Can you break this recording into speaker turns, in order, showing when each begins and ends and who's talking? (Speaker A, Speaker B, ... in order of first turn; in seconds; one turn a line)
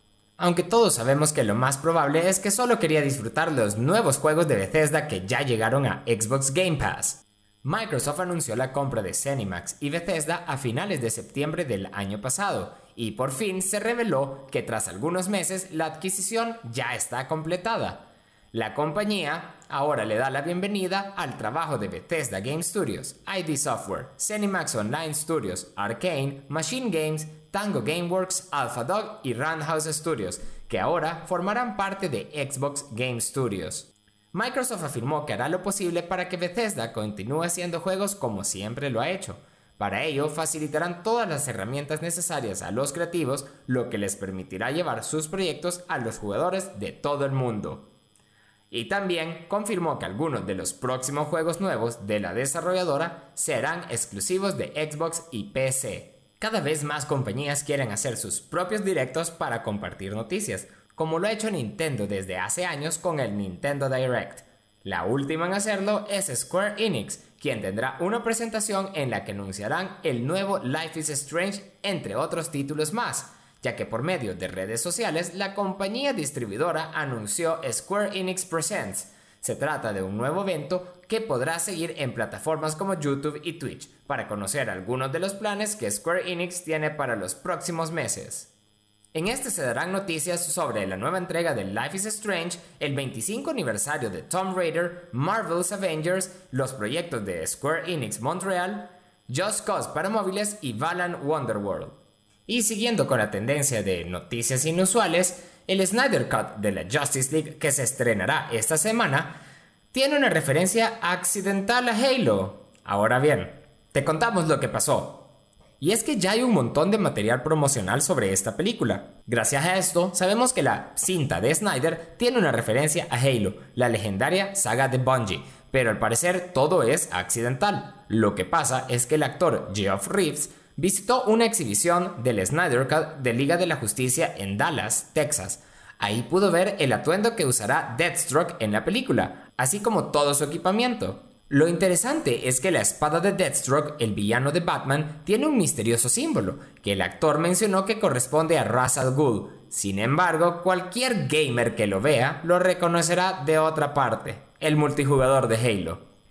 Speaker A: 0.4-47.9
Speaker A: 48.7-88.5
Speaker A: 89.1-109.4
Speaker A: 109.9-115.3
Speaker A: 115.8-156.0